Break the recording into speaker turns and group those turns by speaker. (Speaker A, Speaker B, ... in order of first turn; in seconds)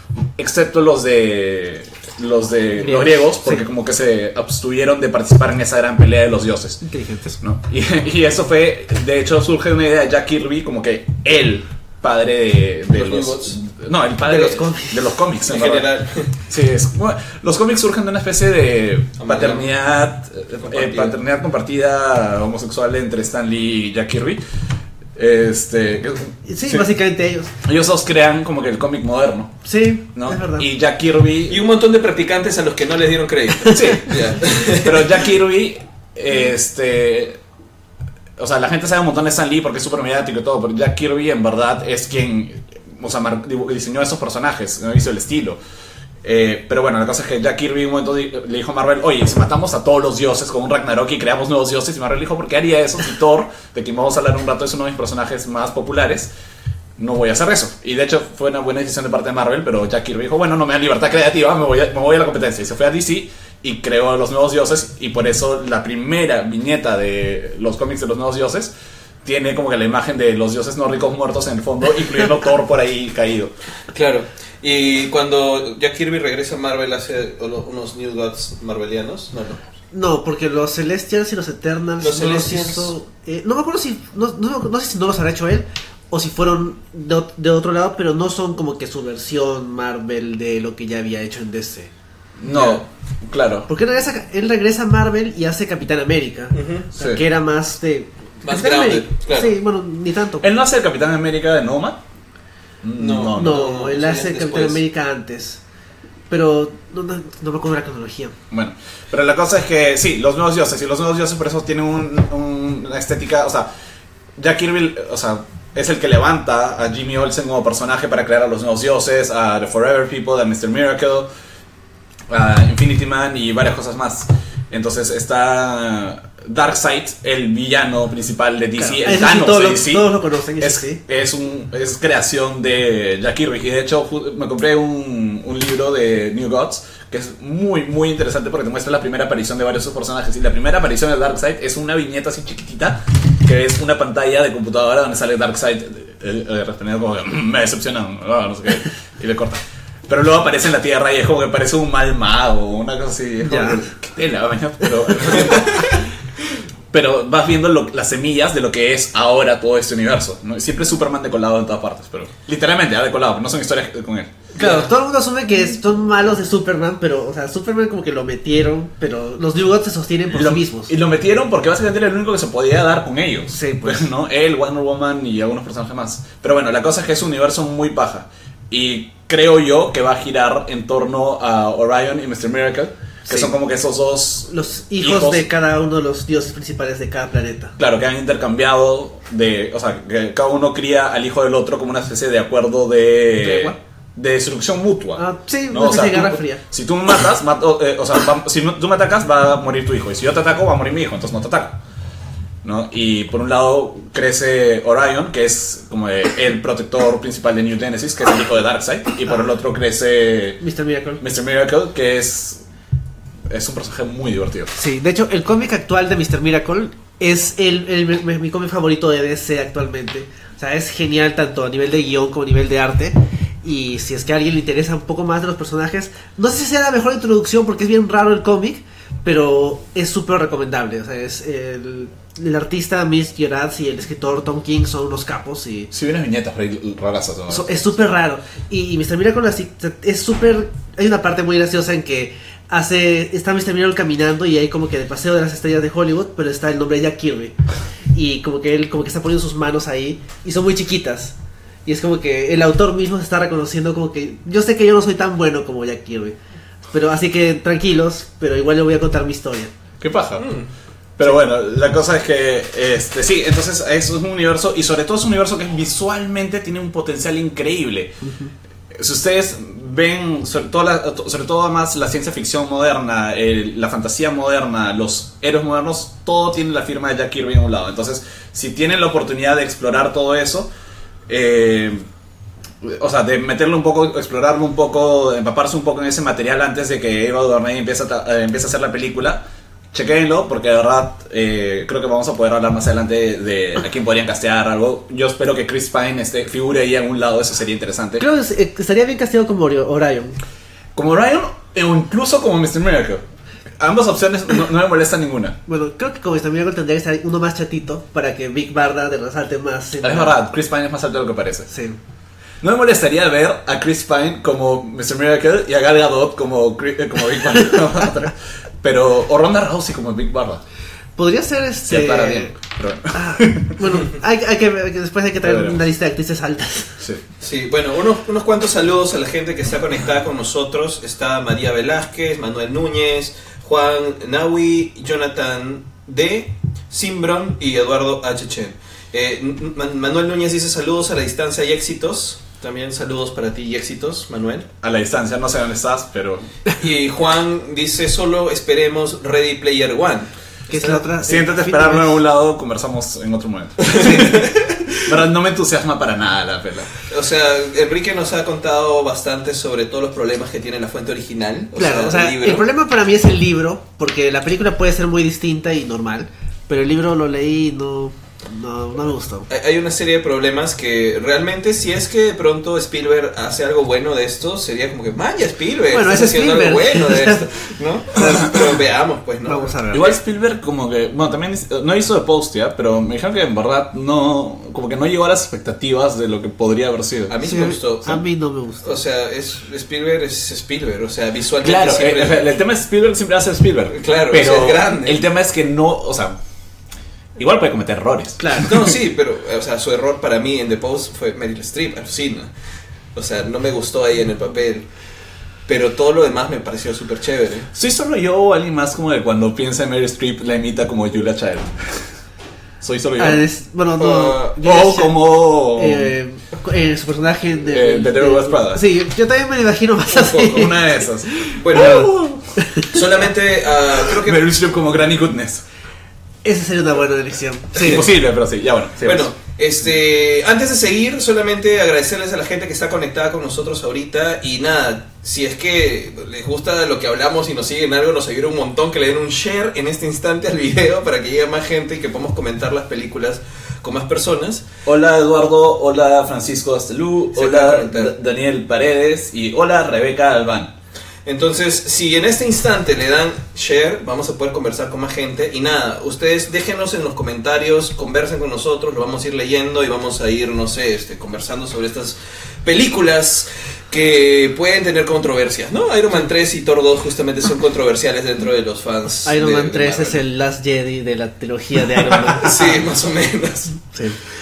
Speaker A: 0.4-6.8, 7.4-15.9, 16.5-24.4, 25.1-26.8, 27.6-29.5, 30.1-31.6, 33.6-37.4, 38.4-45.6, 46.2-56.3, 57.0-68.7, 69.2-73.5, 92.4-93.7, 96.9-97.2, 100.4-102.0, 102.8-103.6, 108.5-113.7, 114.4-121.3, 122.3-156.0, 156.9-164.3, 170.3-185.5, 187.8-201.8, 202.6-210.6, 211.2-212.6, 213.5-214.7, 235.9-237.7, 260.0-260.5, 261.2-268.1, 268.9-280.7, 281.3-282.0, 282.8-298.2, 300.9-303.2, 303.8-305.6, 310.0-311.7, 312.6-320.6, 321.9-323.8, 325.4-325.8, 344.8-346.4, 351.2-356.9, 379.9-387.4, 391.6-396.4, 397.4-398.9, 407.7-412.0, 412.8-413.4, 414.6-416.1, 417.7-418.8, 420.4-422.3, 424.1-425.6, 427.8-429.3, 444.8-450.7
Speaker B: 2.8-3.6, 6.8-7.4, 14.2-15.1, 26.4-27.5, 29.6-30.6, 79.9-91.9, 93.7-100.5, 103.3-105.6, 106.3-108.3, 128.8-131.0, 153.4-153.8, 164.6-170.9, 173.5-174.1, 183.2-183.5, 184.5-187.7, 193.4-193.8, 195.2-196.6, 210.6-211.2, 214.7-235.9, 237.5-247.5, 248.1-251.3, 251.8-256.4, 256.9-259.7, 268.2-268.5, 298.2-300.4, 305.7-310.4, 311.7-312.0, 321.1-322.5, 323.1-327.0, 350.7-352.2, 361.8-369.5, 375.9-377.4, 378.1-378.6, 379.4-380.1, 387.4-388.9, 398.4-398.7, 413.2-415.1, 415.7-420.8, 421.5-422.9, 426.4-428.0, 469.2-472.8, 473.9-474.2
Speaker C: 12.9-13.5, 15.4-16.3, 19.2-19.7, 20.6-21.1, 31.5-35.2, 73.9-79.6, 82.0-82.9, 92.5-92.8, 96.5-96.9, 98.4-99.5, 103.0-104.8, 164.5-164.9, 260.4-260.7, 327.4-344.7, 346.8-351.1, 353.8-355.0, 357.1-362.6, 369.5-379.7, 387.3-388.2, 388.8-392.5, 393.9-395.2, 398.6-402.5, 403.1-404.9, 405.7-407.7, 414.0-414.6, 420.1-420.7, 421.6-422.1, 422.8-424.5, 429.0-444.6, 447.3-448.1, 451.2-470.2, 472.3-473.8